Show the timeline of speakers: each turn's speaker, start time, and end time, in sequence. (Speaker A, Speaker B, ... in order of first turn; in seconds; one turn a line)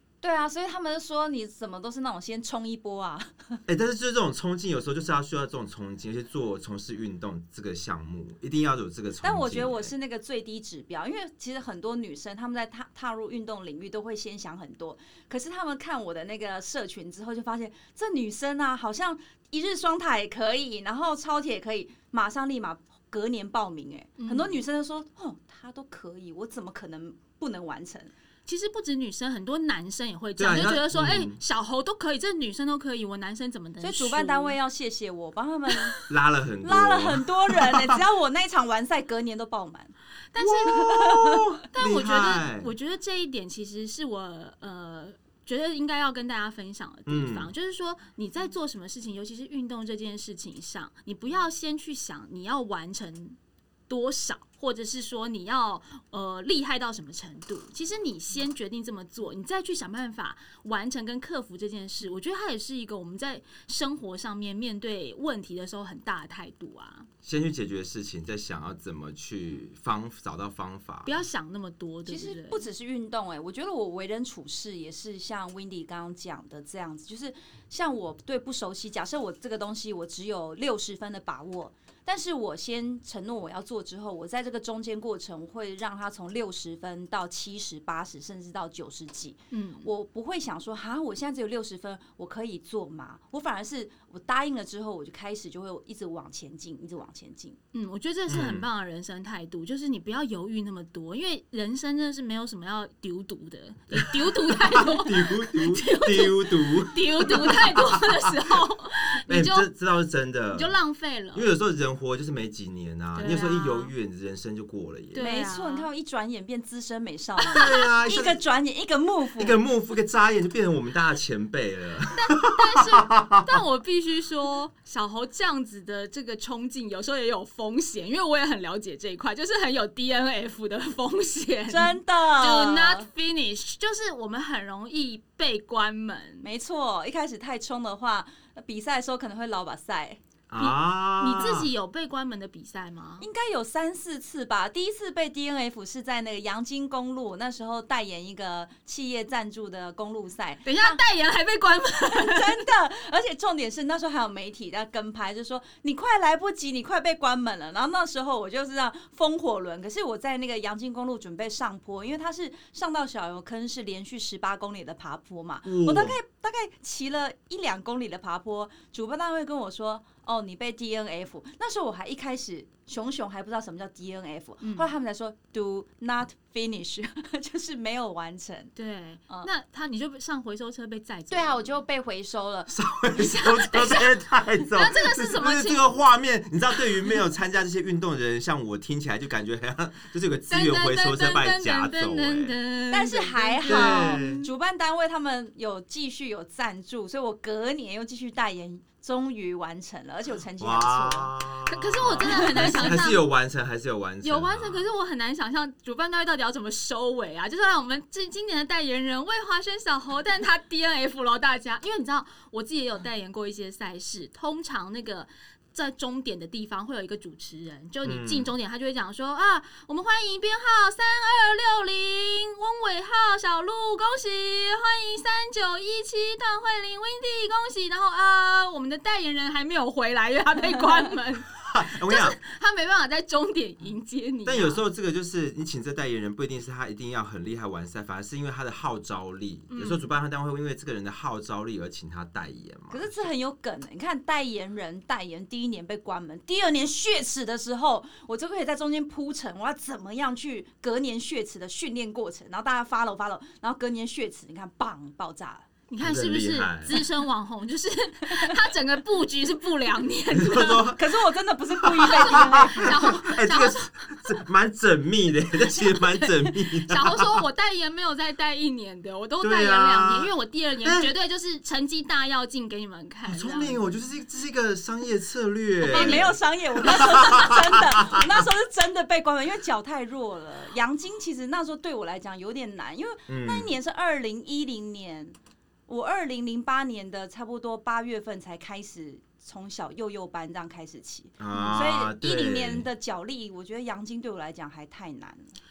Speaker A: 0.2-3.6
Speaker B: 3.7-9.9
Speaker A: 9.2-28.1
Speaker C: 24.2-24.6
Speaker C: 28.4-34.5
Speaker B: 30.4-31.4
Speaker A: 33.8-36.0
Speaker B: 36.1-38.0
Speaker A: 36.6-39.9
Speaker C: 40.3-41.2
Speaker B: 40.4-42.7
Speaker A: 40.7-41.4
Speaker C: 41.7-53.4
Speaker B: 47.1-47.5
Speaker C: 53.9-67.1
Speaker B: 67.2-71.1
Speaker C: 71.0-72.6
Speaker A: 72.1-97.6
Speaker C: 89.5-89.9
Speaker C: 97.7-109.7
Speaker B: 98.3-98.7
Speaker B: 103.9-108.5
Speaker B: 109.3-110.8
Speaker C: 110.5-111.5
Speaker B: 111.3-115.3
Speaker C: 113.1-113.9
Speaker C: 115.1-115.9
Speaker A: 115.2-119.6
Speaker B: 117.4-118.4
Speaker C: 117.5-117.8
Speaker B: 119.4-123.6
Speaker C: 122.1-136.5
Speaker A: 131.7-133.1
Speaker A: 136.4-140.2
Speaker B: 140.5-141.7
Speaker C: 140.6-143.3
Speaker A: 143.2-151.0
Speaker C: 150.6-152.6
Speaker A: 152.1-178.7
Speaker B: 165.6-166.2
Speaker C: 174.6-174.9
Speaker C: 178.8-181.8
Speaker A: 181.3-182.7
Speaker B: 182.7-192.5
Speaker C: 183.1-185.9
Speaker C: 190.5-194.4
Speaker A: 192.9-201.3
Speaker B: 193.6-194.5
Speaker B: 200.6-204.9
Speaker C: 201.7-203.3
Speaker A: 202.1-203.0
Speaker C: 204.2-234.8
Speaker B: 218.0-218.5
Speaker B: 231.6-232.4
Speaker B: 234.4-243.2
Speaker C: 239.7-240.1
Speaker A: 242.9-255.7
Speaker C: 255.9-260.9
Speaker B: 256.0-257.0
Speaker B: 260.3-261.2
Speaker A: 260.9-263.0
Speaker B: 261.8-267.4
Speaker C: 262.0-264.3
Speaker C: 266.9-273.9
Speaker B: 269.4-270.3
Speaker B: 270.8-271.1
Speaker B: 273.2-278.4
Speaker A: 275.8-285.4
Speaker C: 275.9-276.3
Speaker B: 283.3-283.7
Speaker A: 285.9-295.5
Speaker B: 291.4-292.9
Speaker C: 291.5-291.9